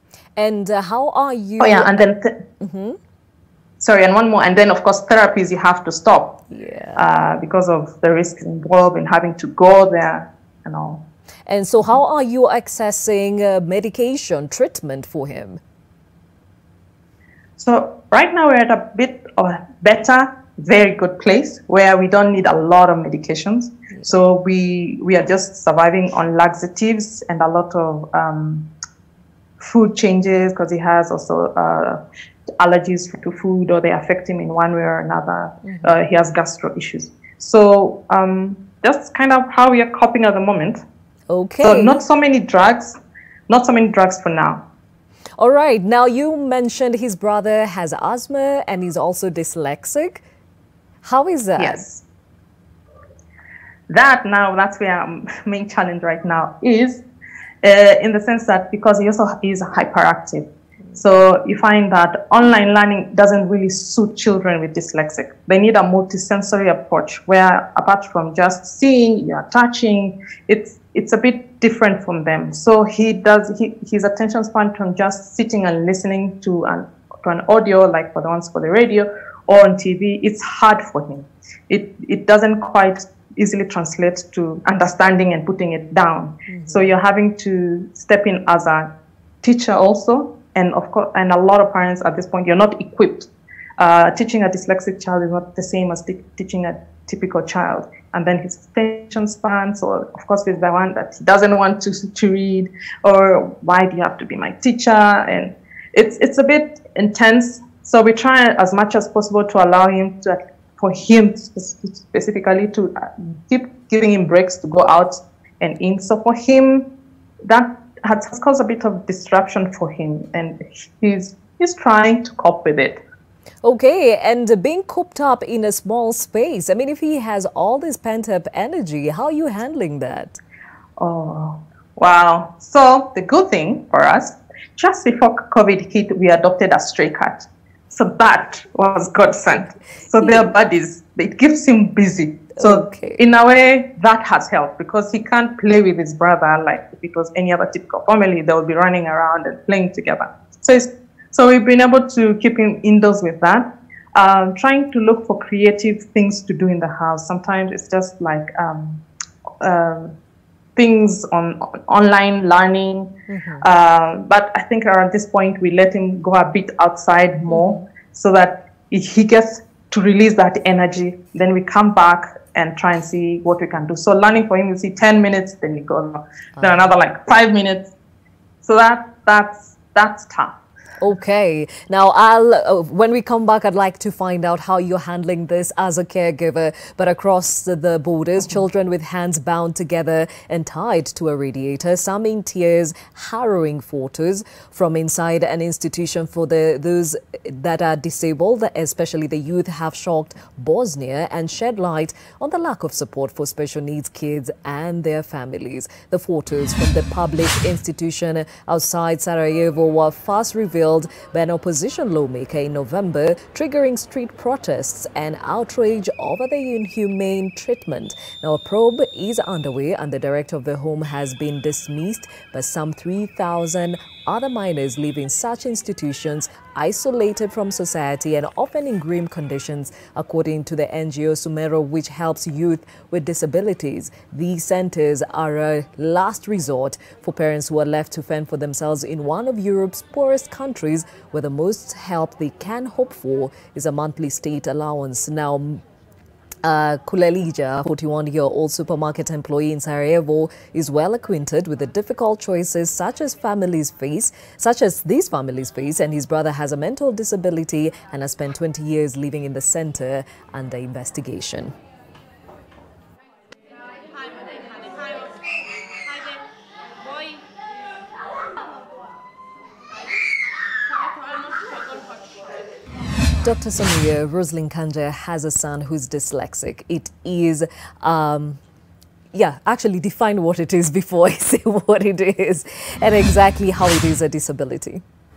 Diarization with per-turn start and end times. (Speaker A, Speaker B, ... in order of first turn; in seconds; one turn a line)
Speaker A: 0.4-2.1
Speaker B: 1.6-2.4
Speaker A: 2.6-3.0
Speaker B: 3.8-6.4
Speaker A: 6.5-7.0
Speaker B: 7.0-11.1
Speaker A: 11.5-15.6
Speaker B: 17.6-28.7
Speaker B: 29.6-32.0
Speaker B: 32.6-40.8
Speaker A: 35.6-36.0
Speaker A: 41.3-42.0
Speaker B: 41.6-43.0
Speaker B: 43.5-44.6
Speaker A: 45.4-50.2
Speaker A: 51.0-51.8
Speaker B: 51.6-52.0
Speaker B: 53.9-57.0
Speaker B: 57.6-88.9
Speaker A: 86.5-87.0
Speaker B: 89.4-93.3
Speaker B: 93.8-116.9
Speaker B: 117.4-123.0
Speaker A: 123.6-130.4
Speaker B: 131.0-159.0
Speaker A: 140.2-140.5
Speaker A: 142.6-143.2
Speaker B: 159.6-160.2
Speaker B: 160.8-177.9
Speaker A: 163.3-163.7
Speaker A: 167.5-167.9
Speaker A: 176.6-177.0
Speaker B: 178.6-180.6
Speaker A: 181.0-245.8
Speaker A: 246.6-261.8
Speaker A: 273.4-278.6
Speaker A: 279.3-285.0